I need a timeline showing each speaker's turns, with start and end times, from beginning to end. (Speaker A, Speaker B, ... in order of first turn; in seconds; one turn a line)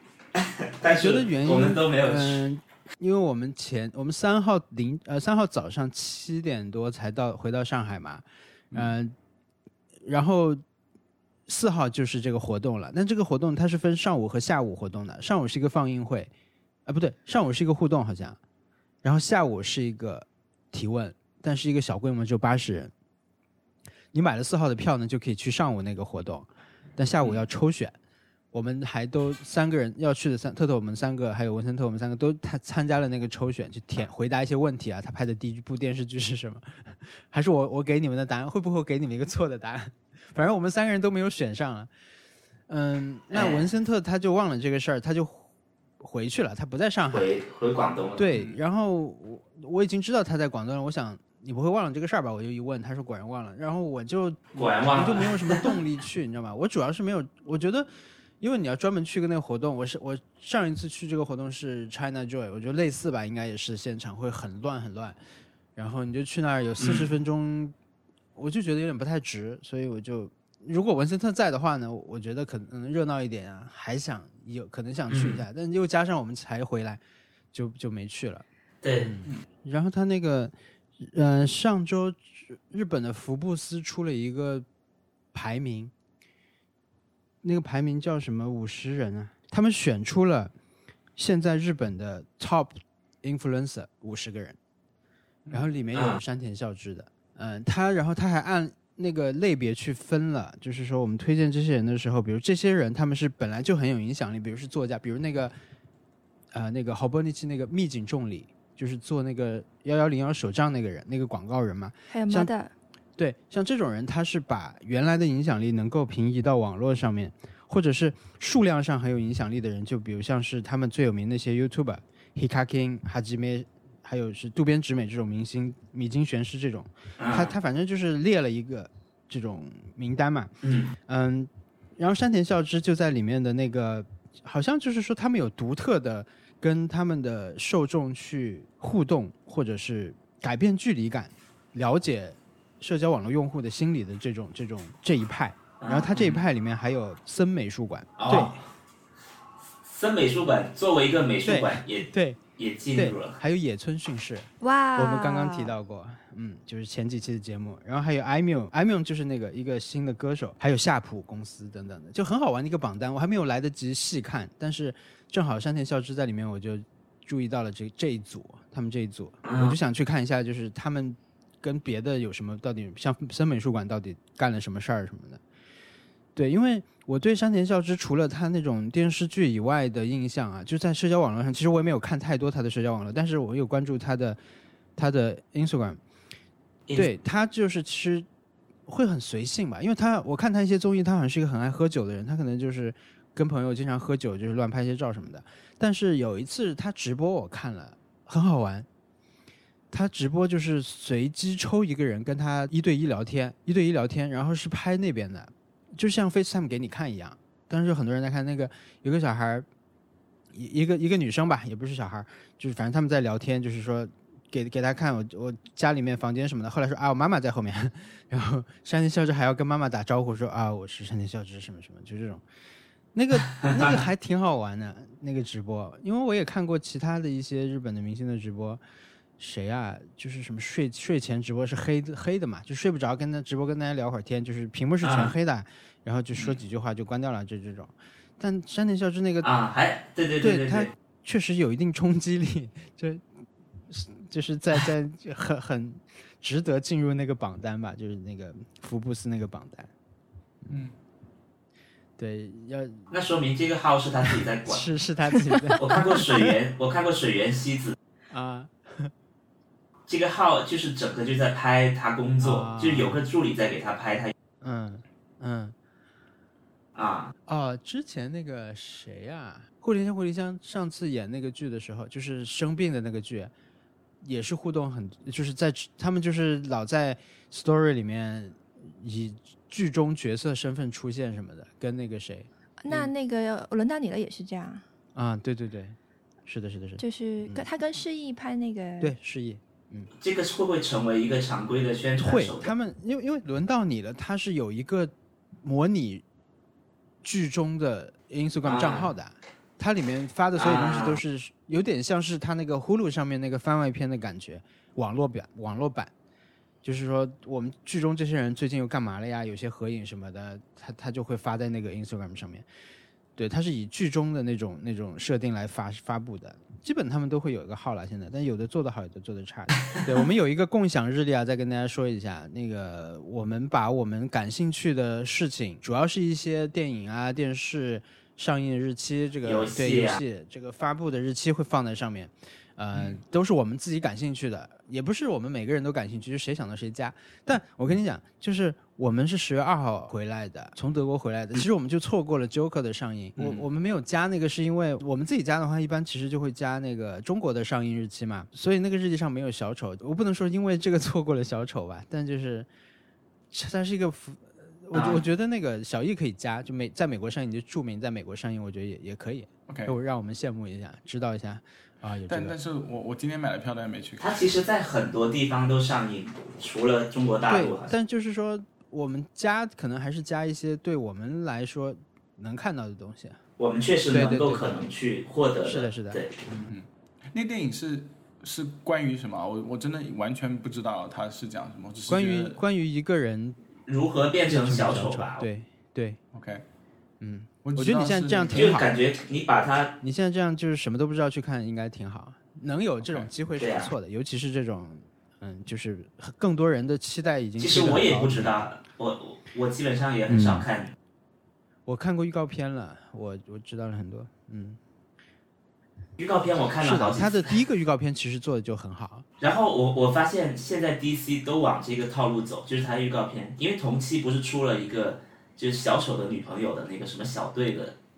Speaker A: 0.3-2.4
Speaker B: 0.9-9.2
Speaker B: 10.0-10.6
Speaker B: 11.5-16.3
Speaker B: 16.9-18.4
Speaker B: 19.0-22.9
Speaker B: 24.1-28.0
Speaker B: 28.5-41.9
Speaker B: 42.7-45.5
Speaker A: 43.3-43.6
Speaker B: 46.0-47.3
Speaker A: 47.1-48.3
Speaker B: 48.2-57.9
Speaker A: 54.6-55.7
Speaker B: 58.4-65.2
Speaker B: 65.8-67.7
Speaker A: 66.8-67.1
Speaker B: 68.4-77.0
Speaker A: 75.1-75.4
Speaker B: 77.5-78.5
Speaker A: 78.8-79.1
Speaker B: 79.0-84.7
Speaker B: 85.3-85.9
Speaker B: 87.4-90.5
Speaker B: 91.2-94.6
Speaker B: 95.5-105.6
Speaker B: 106.5-112.5
Speaker C: 112.1-112.7
Speaker B: 113.2-148.5
Speaker A: 127.2-127.5
Speaker A: 130.6-131.0
Speaker A: 145.8-146.4
Speaker A: 148.2-148.6
Speaker A: 149.9-152.1
Speaker B: 151.4-152.4
Speaker A: 152.6-153.4
Speaker B: 152.9-175.4
Speaker C: 154.6-155.7
Speaker A: 169.4-169.8
Speaker B: 176.3-184.4
Speaker B: 185.0-186.0
Speaker B: 186.9-188.3
Speaker B: 188.9-198.9
Speaker B: 199.9-209.7
Speaker B: 210.5-222.4
Speaker B: 223.1-228.8
Speaker B: 229.4-239.5
Speaker A: 235.0-235.3
Speaker A: 239.4-240.9
Speaker B: 240.4-243.3
Speaker B: 243.9-249.9
Speaker D: 250.7-250.9
Speaker B: 252.2-253.1
Speaker A: 253.1-254.9
Speaker B: 254.7-256.5
Speaker A: 255.8-258.0
Speaker B: 258.3-259.1
Speaker A: 260.1-264.3
Speaker B: 262.4-263.2
Speaker B: 264.6-265.8
Speaker A: 266.9-267.3
Speaker B: 267.5-273.5
Speaker B: 274.2-283.1
Speaker C: 282.8-284.8
Speaker B: 285.1-287.7
Speaker C: 287.0-289.1
Speaker B: 289.0-290.1
Speaker A: 290.2-292.7
Speaker B: 292.2-296.2
Speaker B: 297.2-306.1
Speaker A: 298.6-299.1
Speaker A: 300.6-301.2
Speaker B: 306.8-312.7
Speaker B: 313.4-352.7
Speaker A: 329.4-330.2
Speaker B: 353.5-362.6
Speaker A: 354.9-355.2
Speaker D: 359.7-359.9
Speaker D: 362.3-364.4
Speaker A: 364.2-367.9
Speaker B: 367.5-373.4
Speaker A: 373.6-376.3
Speaker B: 374.1-374.7
Speaker B: 375.6-376.8
Speaker D: 376.7-382.6
Speaker B: 382.1-383.6
Speaker A: 383.9-385.5
Speaker B: 384.5-386.2
Speaker D: 386.3-386.6
Speaker B: 387.2-388.9
Speaker D: 387.6-388.8
Speaker A: 388.5-389.9
Speaker B: 390.0-398.7
Speaker D: 393.0-393.3
Speaker A: 393.6-393.9
Speaker A: 397.6-400.9
Speaker B: 400.3-400.7
Speaker B: 401.9-404.8
Speaker A: 406.2-407.6
Speaker B: 406.8-409.2
Speaker A: 409.4-417.9